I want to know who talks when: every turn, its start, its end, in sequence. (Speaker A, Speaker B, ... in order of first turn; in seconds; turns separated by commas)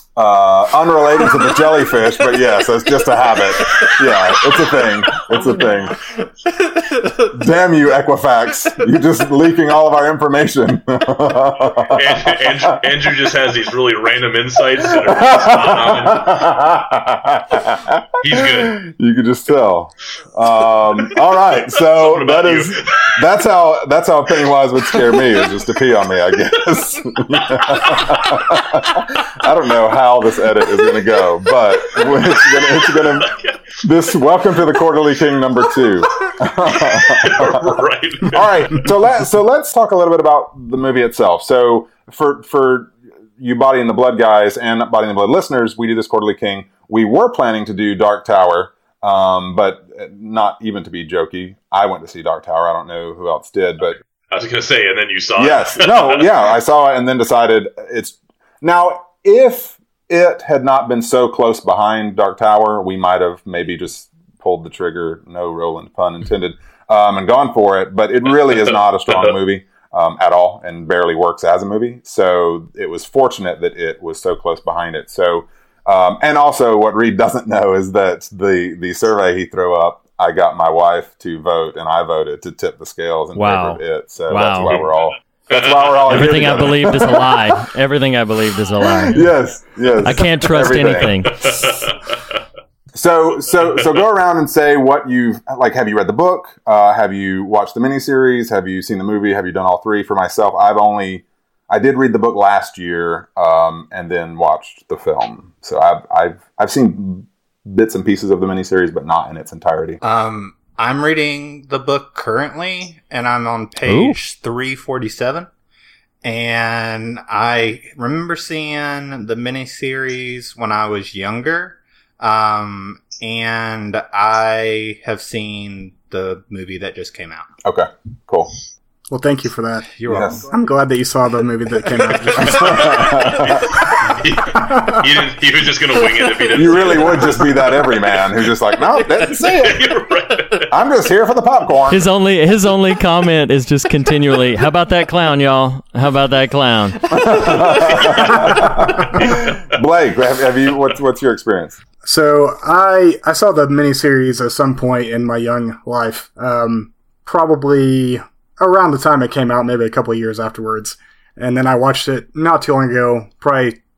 Speaker A: 0.1-6.0, Speaker B: 6.8-7.3, Speaker A: 7.3-13.1, Speaker C: 11.9-16.6, Speaker A: 14.8-54.0, Speaker C: 18.2-18.9, Speaker C: 21.4-23.2, Speaker C: 25.0-25.4, Speaker C: 27.3-28.5, Speaker C: 30.8-33.6, Speaker C: 35.7-38.9, Speaker C: 54.3-56.4, Speaker A: 55.4-87.6, Speaker D: 83.3-84.8, Speaker C: 85.5-87.0, Speaker D: 86.1-89.3, Speaker A: 89.0-91.3, Speaker D: 90.0-91.7, Speaker C: 91.0-92.1, Speaker A: 92.9-110.0, Speaker B: 110.0-115.5, Speaker D: 113.8-114.2, Speaker B: 116.2-127.5, Speaker A: 127.6-128.5, Speaker E: 129.1-132.8, Speaker B: 130.0-130.4, Speaker A: 130.0-130.4, Speaker B: 132.1-132.9, Speaker A: 132.4-133.7, Speaker C: 132.6-138.2, Speaker A: 136.5-139.8, Speaker C: 139.4-140.7, Speaker A: 140.7-142.1, Speaker D: 141.9-147.4, Speaker A: 147.1-151.8, Speaker C: 147.9-148.5, Speaker C: 149.2-149.7, Speaker E: 152.0-163.8